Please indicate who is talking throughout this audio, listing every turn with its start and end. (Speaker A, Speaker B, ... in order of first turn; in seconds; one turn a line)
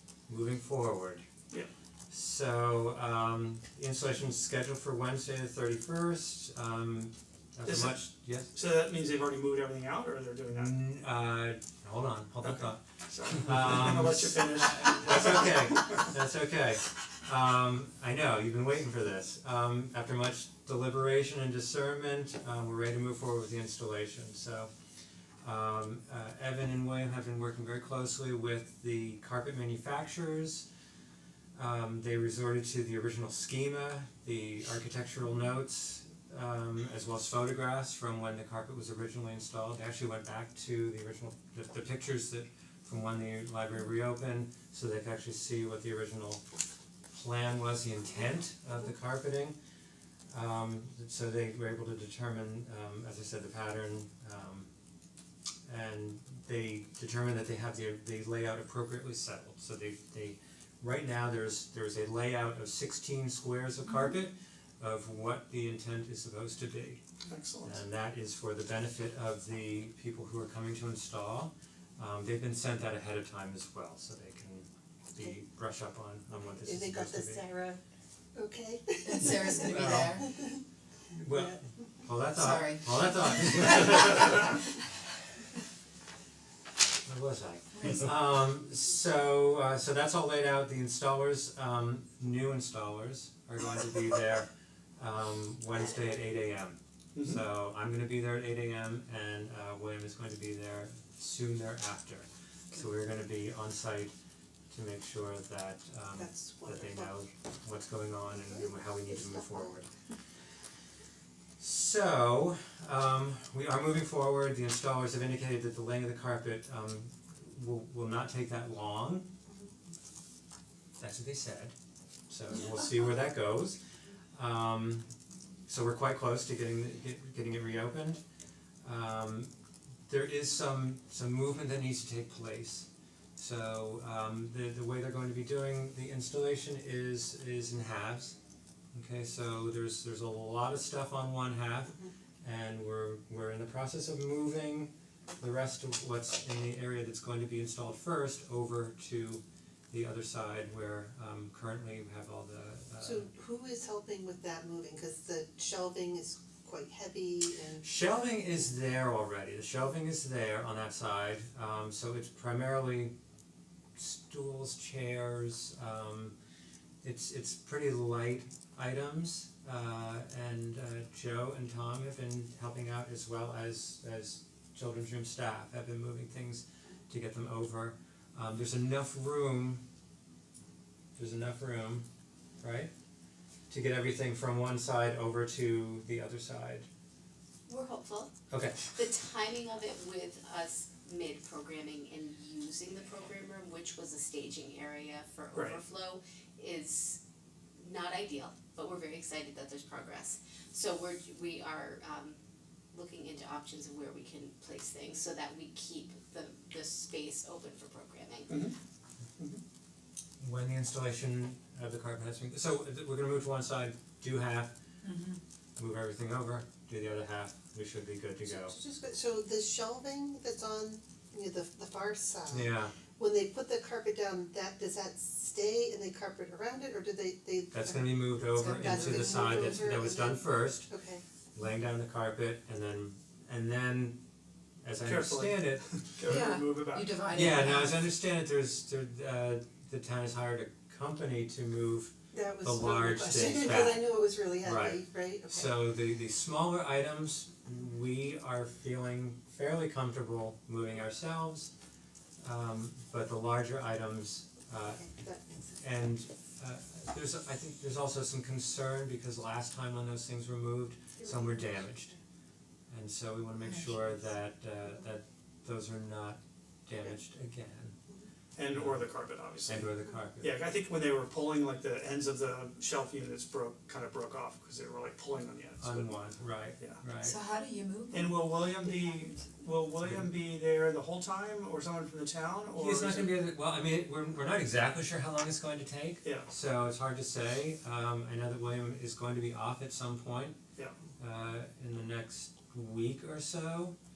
Speaker A: 0.3-1.2
Speaker A: 2.1-8.5
Speaker B: 7.6-10.7
Speaker A: 10.5-24.7
Speaker B: 12.4-15.5
Speaker A: 25.4-30.6
Speaker A: 31.5-46.4
Speaker A: 47.1-49.5
Speaker A: 50.3-54.7
Speaker A: 55.7-67.0
Speaker B: 67.3-67.8
Speaker A: 67.6-77.5
Speaker C: 76.6-77.8
Speaker C: 78.3-80.6
Speaker D: 79.0-80.3
Speaker A: 79.6-80.2
Speaker A: 81.1-84.6
Speaker D: 82.3-83.1
Speaker A: 87.0-104.1
Speaker A: 104.7-109.9
Speaker C: 106.2-107.1
Speaker C: 108.5-109.7
Speaker A: 111.6-119.3
Speaker A: 121.0-121.7
Speaker A: 122.3-123.8
Speaker A: 124.3-125.1
Speaker A: 125.7-128.2
Speaker A: 128.8-129.5
Speaker A: 130.1-138.3
Speaker A: 138.9-153.3
Speaker C: 153.0-157.8
Speaker A: 157.8-163.1
Speaker A: 163.9-166.3
Speaker A: 167.0-179.8
Speaker A: 181.1-182.1
Speaker A: 182.6-182.9
Speaker A: 183.7-186.9
Speaker E: 187.7-188.3
Speaker A: 188.5-188.9
Speaker E: 188.9-197.2
Speaker B: 195.5-195.8
Speaker E: 197.8-202.4
Speaker E: 202.9-208.6
Speaker B: 208.5-208.7
Speaker A: 210.4-214.7
Speaker D: 215.1-215.3
Speaker A: 215.8-218.7
Speaker C: 218.4-231.2
Speaker A: 222.5-222.9
Speaker A: 227.7-230.9
Speaker D: 228.6-228.9
Speaker A: 231.5-234.2
Speaker A: 234.8-236.0
Speaker B: 235.0-237.3
Speaker D: 236.2-238.0
Speaker A: 237.3-251.7
Speaker C: 242.3-245.7
Speaker A: 252.4-255.1
Speaker C: 254.8-255.8
Speaker A: 255.8-262.1
Speaker C: 261.2-261.7
Speaker A: 262.9-267.9
Speaker B: 268.6-276.3
Speaker A: 268.7-269.0
Speaker A: 269.6-270.5
Speaker A: 275.8-277.4
Speaker D: 277.2-279.4
Speaker B: 278.1-283.4
Speaker A: 282.7-290.6
Speaker A: 291.2-293.9